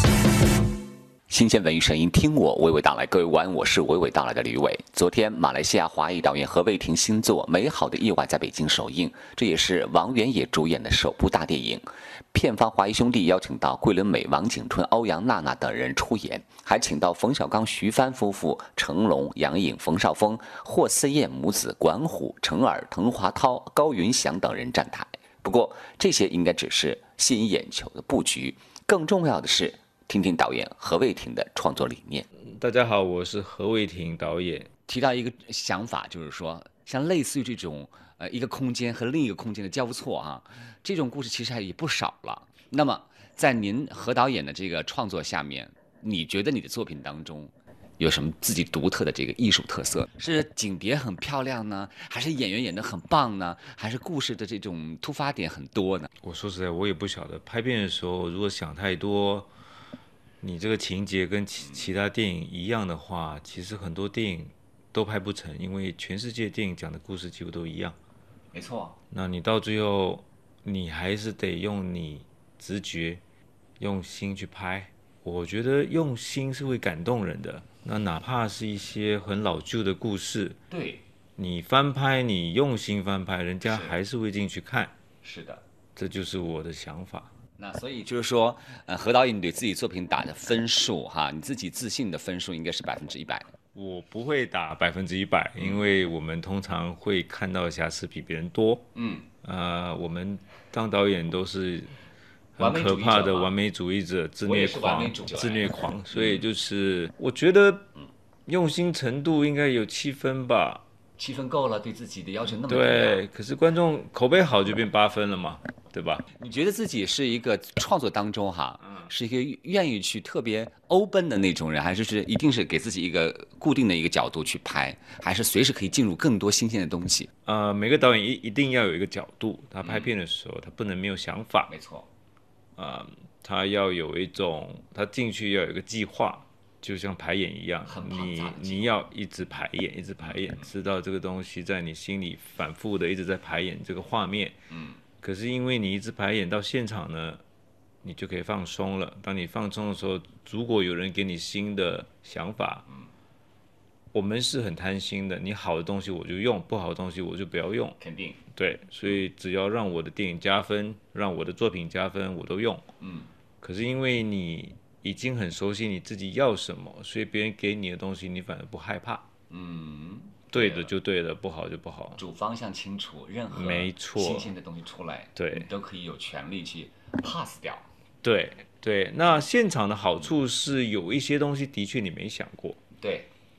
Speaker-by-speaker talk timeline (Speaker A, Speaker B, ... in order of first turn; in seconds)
Speaker A: 1.3-32.2, 34.9-56.1, 61.6-61.9, 68.5-68.9, 80.7-81.0, 83.6-84.0, 85.2-85.6, 87.6-93.5, 95.6-95.8, 98.9-99.3, 102.6-103.5, 104.4-106.5, 111.2-113.2, 116.4-127.3, 129.8-130.1, 131.7-132.1, 137.8-139.0, 140.2-140.7, 144.7-145.0, 158.0-158.4, 163.0-163.3, 169.5-170.9, 172.2-177.9, 183.0-183.3
Speaker B: 32.5-34.7, 56.2-59.5, 60.4-67.9, 69.1-73.2, 73.8-80.6, 81.4-84.9, 86.0-87.3, 93.7-98.9, 99.4-101.9, 102.5-107.9, 108.5-110.8, 112.7-116.2, 127.5-131.7, 132.8-144.6, 145.2-147.4, 148.0-152.8, 154.1-158.0, 158.5-162.8, 163.6-169.2, 170.5-172.2, 173.5-174.5, 175.3-175.7, 178.2-182.8